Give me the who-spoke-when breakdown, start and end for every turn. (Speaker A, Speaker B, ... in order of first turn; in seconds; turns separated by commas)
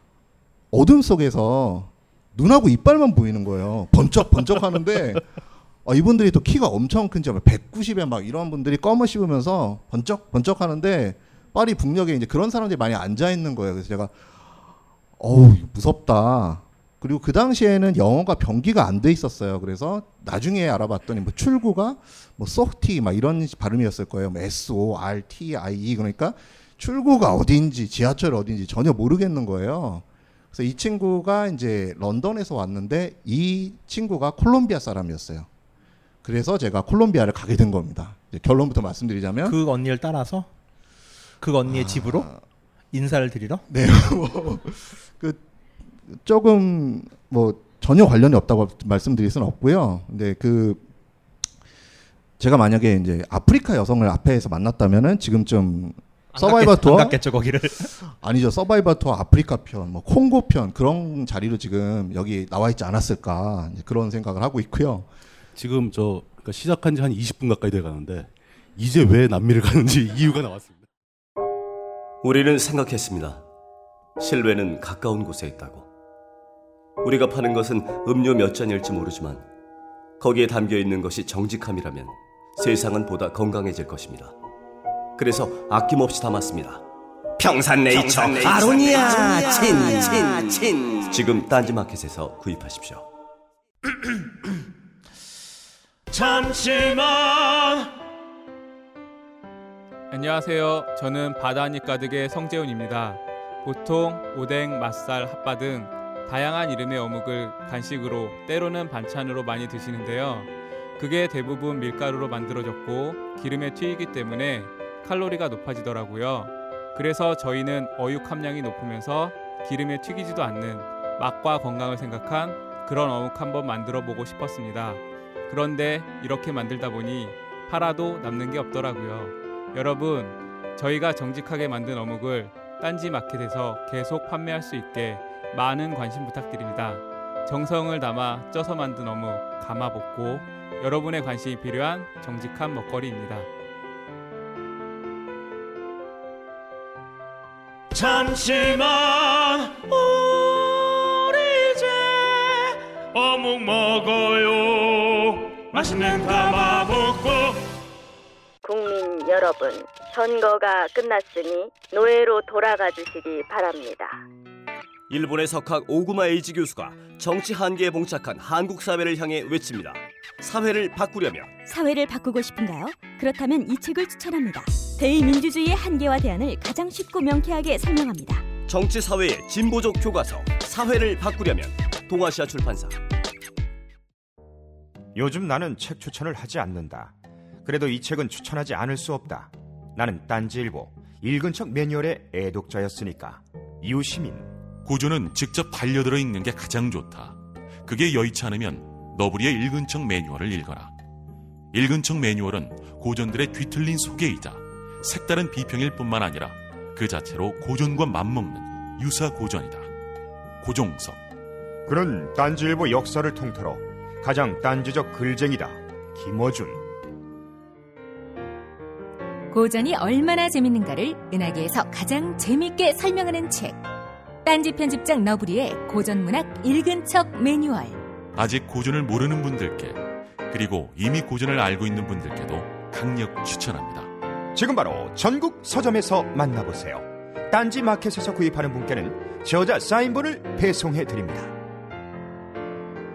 Speaker A: 0.7-5.2, Speaker A: 5.8-14.2, Speaker A: 15.2-35.5, Speaker A: 36.2-39.6, Speaker B: 39.5-40.5, Speaker B: 41.4-42.3, Speaker A: 41.6-42.4, Speaker B: 42.9-43.6, Speaker A: 43.7-45.4, Speaker A: 46.1-50.8, Speaker A: 52.4-57.2, Speaker B: 56.3-57.9, Speaker A: 58.0-65.1, Speaker C: 65.6-70.8, Speaker D: 72.2-73.4, Speaker D: 74.2-75.9, Speaker D: 77.0-79.5, Speaker D: 80.2-84.3, Speaker D: 85.2-86.8, Speaker D: 87.4-93.1, Speaker E: 88.2-90.3, Speaker E: 96.1-97.9, Speaker F: 100.1-143.5, Speaker E: 147.9-157.7, Speaker G: 158.6-164.2, Speaker D: 165.1-171.6, Speaker H: 171.6-178.5, Speaker D: 178.7-183.0, Speaker I: 185.2-187.1, Speaker I: 187.7-194.5, Speaker J: 194.8-200.9, Speaker J: 201.7-209.9, Speaker J: 210.6-211.2, Speaker I: 211.9-216.8, Speaker K: 219.5-223.8, Speaker K: 224.4-228.0, Speaker J: 228.4-234.1, Speaker I: 234.5-241.5